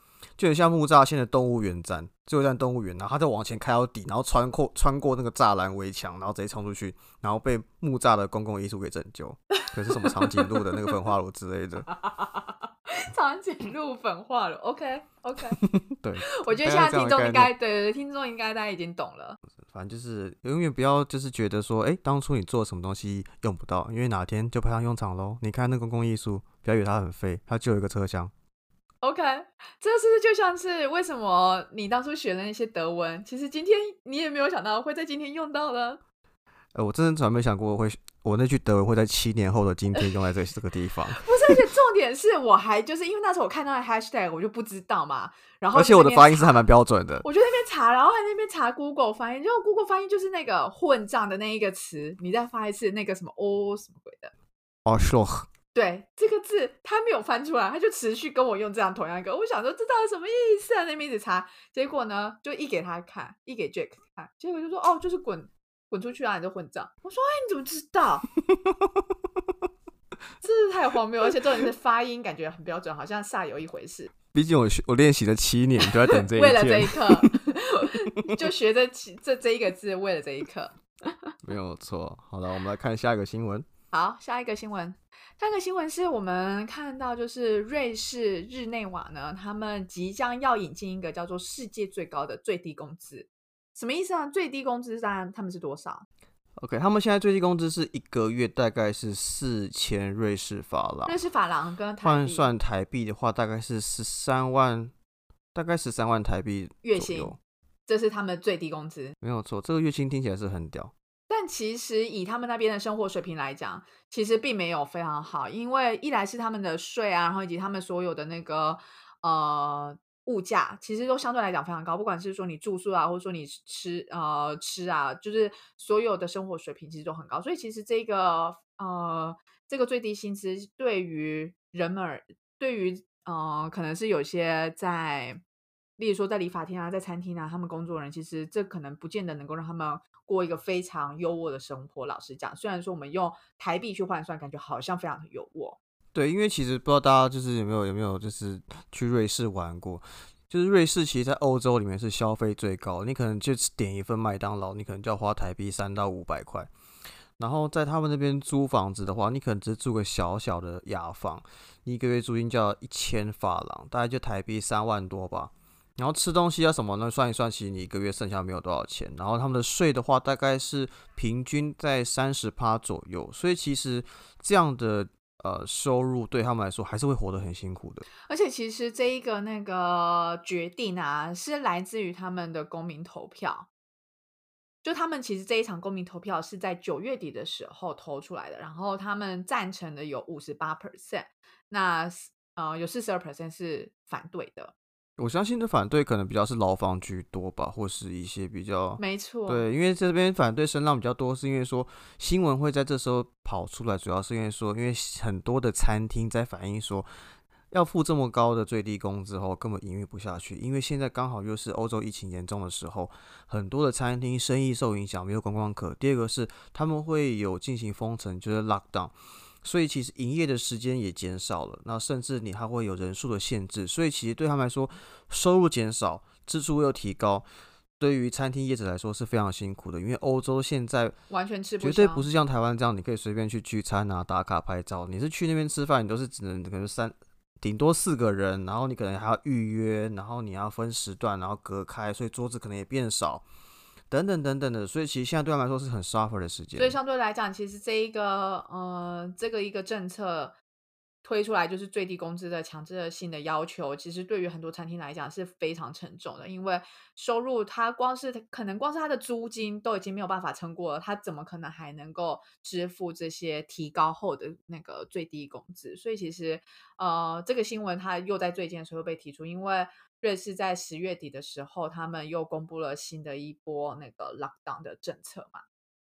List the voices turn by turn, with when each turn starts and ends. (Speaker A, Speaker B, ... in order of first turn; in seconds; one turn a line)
Speaker A: 0.4-11.9
Speaker B: 9.6-11.1
Speaker B: 11.9-15.6
Speaker A: 15.6-17.5
Speaker B: 16.3-19.4
Speaker A: 19.7-28.3
Speaker B: 29.0-36.0
Speaker A: 36.7-41.5
Speaker B: 41.1-46.6
Speaker A: 45.7-47.2
Speaker B: 47.2-54.3
Speaker A: 54.9-55.5
Speaker B: 55.7-68.2
Speaker A: 68.5-68.9
Speaker B: 70.4-74.1
Speaker A: 74.3-77.3
Speaker B: 75.8-81.3
Speaker A: 81.4-83.7
Speaker B: 83.9-96.0
Speaker A: 96.6-101.1
Speaker B: 101.0-102.5
Speaker A: 102.0-104.9
Speaker A: 105.5-107.4
Speaker B: 106.8-107.3
Speaker B: 107.9-109.1
Speaker A: 109.2-110.9
Speaker B: 111.3-135.4
Speaker B: 136.0-145.8
Speaker A: 146.1-156.7
Speaker A: 157.4-178.0
Speaker B: 178.3-183.7
Speaker B: 184.8-194.7
Speaker A: 195.2-227.4
Speaker B: 199.0-199.6
Speaker A: 228.0-231.2
Speaker B: 231.3-232.3
Speaker A: 231.8-243.4
Speaker A: 244.1-247.0
Speaker B: 246.8-250.6
Speaker B: 251.2-275.6